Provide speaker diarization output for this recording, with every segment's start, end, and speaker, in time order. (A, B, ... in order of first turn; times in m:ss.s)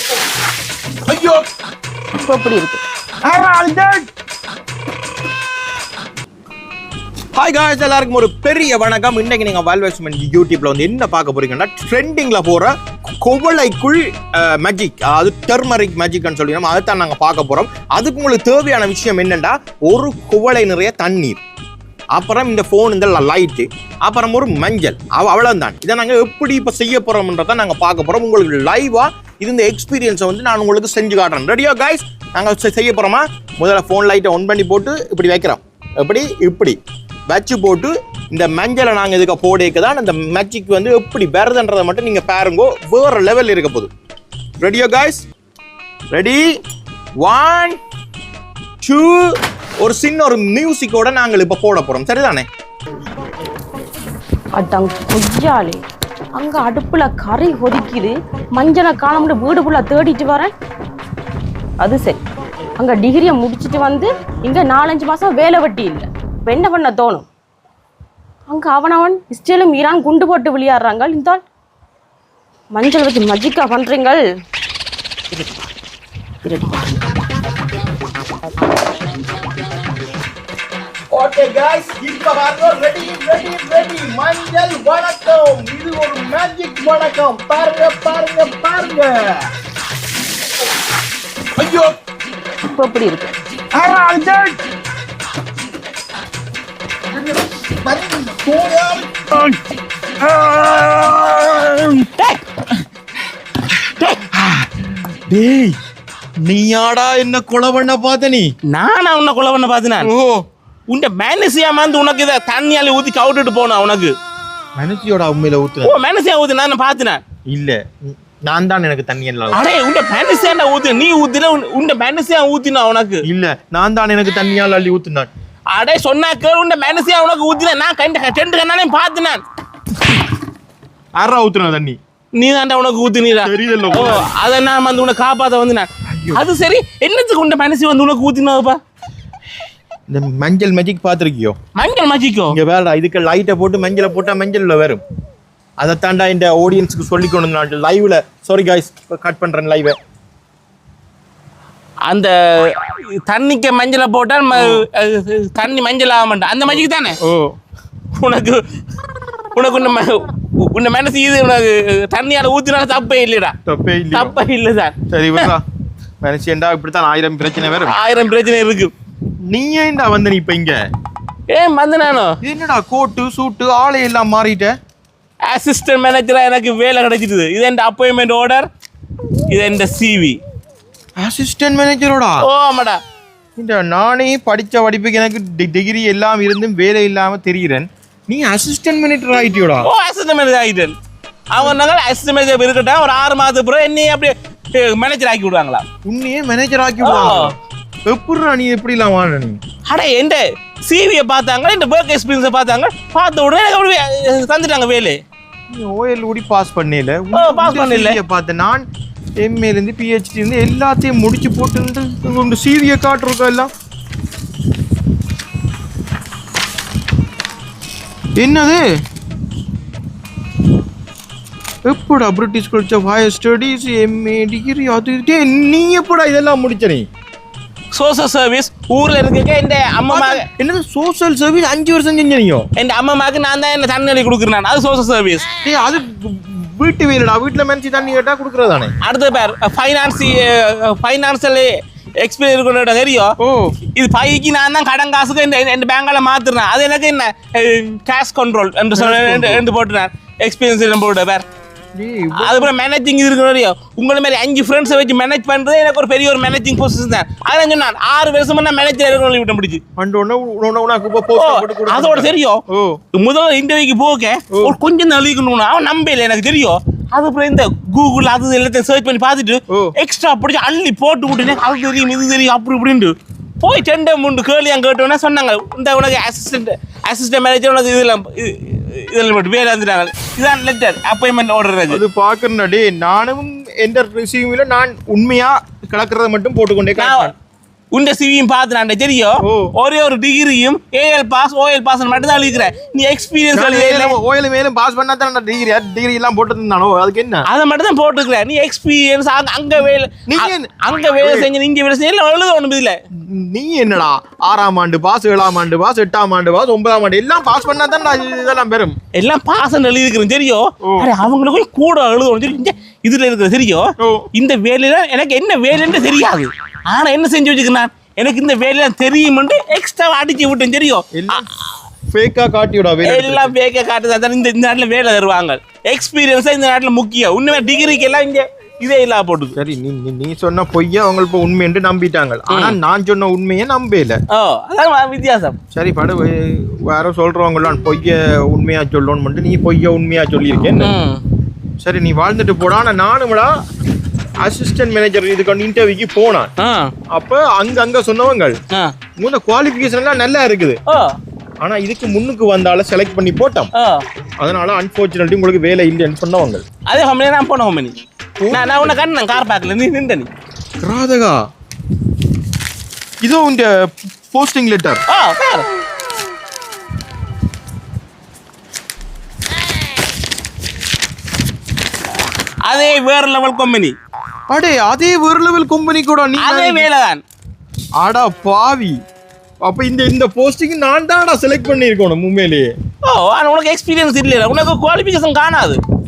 0:01.1-0:01.4 A
0:02.2-0:02.8 B
0:03.2-0:04.0 A
0:07.4-0:12.7 A
0:13.2-0:21.4 A
0:22.1-0:43.9 A
0:44.6-0:45.2 A
0:46.1-0:46.4 A
0:47.2-0:47.8 A
0:48.8-0:49.3 A
0:49.8-0:52.5 A
0:54.5-0:55.8 B
0:56.3-1:00.5 B
1:01.8-1:02.2 B
1:02.8-1:07.3 B
1:08.5-1:11.4 B
1:12.7-1:14.2 B
1:16.4-1:16.9 B
1:21.1-1:29.4 A
1:31.6-1:31.9 A
1:32.6-1:33.3 B
1:33.7-1:34.6 A
1:37.8-1:39.6 A
1:40.2-1:42.1 A
1:42.2-1:42.7 C
1:44.1-1:45.8 A
1:46.4-1:48.5 A
1:48.7-1:50.1 C
1:50.0-1:50.4 A
1:50.9-1:54.1 C
1:54.8-1:56.0 A
1:55.8-1:57.2 C
1:57.5-1:59.6 A
1:59.5-2:03.2 C
2:03.2-2:05.3 A
2:05.7-2:09.4 C
2:11.2-2:12.0 A
2:12.3-2:18.8 C
2:13.4-2:14.3 A
2:16.0-2:16.4 A
2:20.1-2:21.6 A
2:21.8-2:22.6 C
2:22.5-2:25.0 A
2:25.8-2:30.0 A
2:32.0-2:37.2 C
2:34.5-2:34.8 A
2:36.7-2:37.6 A
2:38.2-2:38.6 C
2:39.5-2:43.6 C
2:43.6-2:44.4 A
2:44.1-2:45.5 C
2:45.1-2:45.6 A
2:46.2-2:48.0 A
2:47.8-2:48.9 C
2:49.5-2:50.8 A
2:51.5-2:52.4 C
2:52.4-2:54.7 A
2:55.4-2:58.7 C
2:59.5-3:00.4 C
3:01.2-3:02.5 A
3:02.4-3:03.0 C
3:03.6-3:09.9 A
3:09.8-3:10.9 C
3:11.5-3:15.8 C
3:16.0-3:17.6 A
3:17.0-3:17.5 C
3:18.1-3:19.6 A
3:19.9-3:25.2 C
3:25.7-3:28.8 A
3:27.3-3:28.2 C
3:29.4-3:33.7 A
3:38.4-3:38.8 A
3:41.8-3:47.0 A
3:47.9-3:50.4 C
3:50.1-3:52.7 A
3:52.8-3:55.5 C
3:55.6-3:58.9 A
3:59.0-4:01.7 C
4:02.2-4:03.3 C
4:03.4-4:03.7 A
4:03.9-4:11.4 C
4:08.9-4:09.6 A
4:11.9-4:12.7 A
4:12.4-4:19.8 C
4:20.0-4:23.0 A
4:21.4-4:22.6 C
4:23.1-4:42.0 C
4:24.5-4:24.8 A
4:41.9-4:47.3 A
4:47.0-4:47.3 C
4:47.9-4:54.2 C
4:49.4-4:49.7 A
4:53.5-4:57.5 A
4:57.5-5:03.0 C
5:00.2-5:01.5 A
5:03.2-5:09.0 A
5:09.1-5:21.4 C
5:10.8-5:11.1 A
5:14.0-5:14.2 A
5:21.1-5:21.5 A
5:22.1-5:23.5 A
5:23.0-5:29.5 C
5:29.6-5:34.2 A
5:32.5-5:32.8 C
5:34.3-5:35.6 C
5:35.7-5:40.9 A
5:40.7-5:41.2 C
5:41.8-5:43.5 A
5:44.4-5:46.5 A
5:46.6-5:46.9 C
5:47.1-5:48.6 A
5:49.2-5:50.8 A
5:50.9-5:51.2 C
5:51.6-5:53.7 A
5:53.8-5:54.0 C
5:54.4-5:56.6 A
5:56.8-5:58.0 C
5:58.4-5:59.0 A
5:58.5-6:00.3 C
6:00.8-6:01.4 A
6:03.2-6:03.7 A
6:04.3-6:05.0 A
6:05.1-6:05.7 C
6:12.6-6:13.9 C
6:14.5-6:16.9 A
6:16.4-6:17.2 C
6:18.0-6:19.0 A
6:19.6-6:22.7 A
6:23.0-6:25.8 C